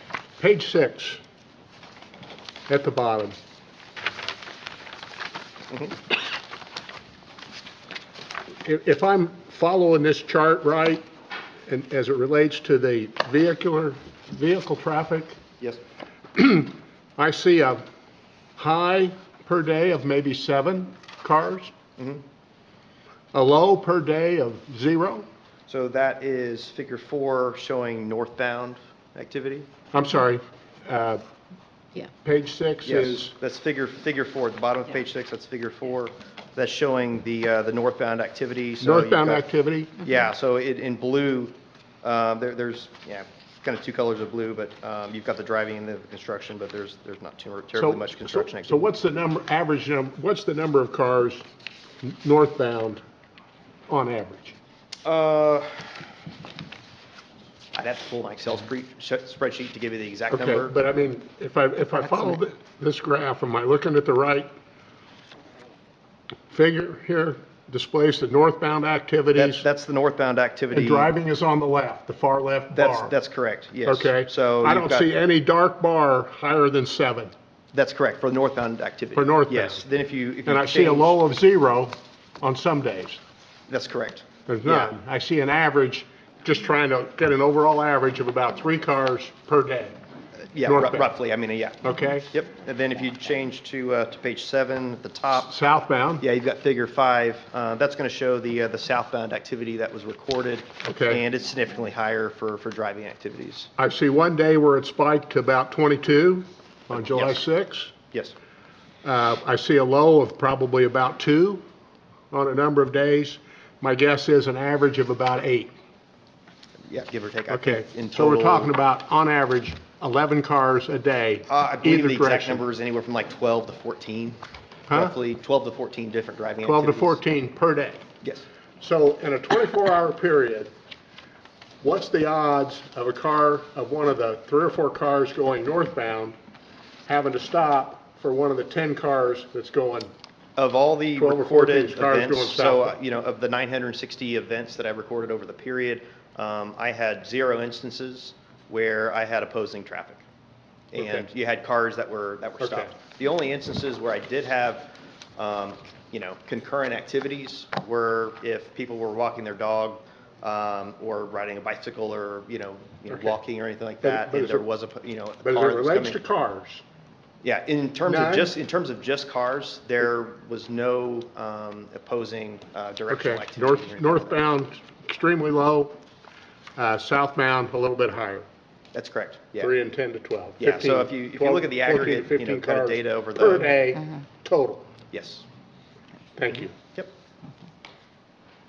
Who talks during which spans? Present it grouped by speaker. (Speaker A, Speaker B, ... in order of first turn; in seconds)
Speaker A: 0.4-1.2, 2.7-3.4, 8.6-11.0, 11.7-15.4, 16.3-17.8, 18.6-21.7, 23.3-25.3, 29.9-31.2, 32.0-33.3, 38.8-40.0, 47.8-51.4, 52.0-53.0, 53.9-54.5, 60.3-64.5, 66.5-69.6, 70.7-73.2, 73.9-77.3, 79.1-79.8, 80.5-83.2, 84.5-90.0, 90.6-91.1, 91.8-92.2, 95.4-96.2, 100.8-101.2, 103.8-108.0, 109.0-111.6, 112.3-115.7, 117.5-122.6, 124.9-125.1, 126.6-128.0, 128.8-130.7, 131.8-136.4, 137.1-140.1, 141.2-143.0, 150.9-151.2, 152.6-152.9, 163.1-163.4, 164.0-164.7, 165.4-166.8, 168.1-168.5, 173.1-176.0, 176.8-178.4, 179.6-184.9, 186.4-186.8
Speaker B: 22.0-22.2, 25.7-29.7, 32.8-39.5, 40.0-48.9, 55.0-55.9, 57.8-60.8, 69.3-71.1, 72.7-75.1, 77.7-81.2, 83.7-84.9, 90.5-95.5, 96.2-103.7, 106.9-107.5, 116.9-118.7, 121.5-124.4, 124.9-127.2, 140.6-150.2, 150.9-166.2, 167.4-174.4, 178.9-179.7, 180.6-183.9, 185.1-185.4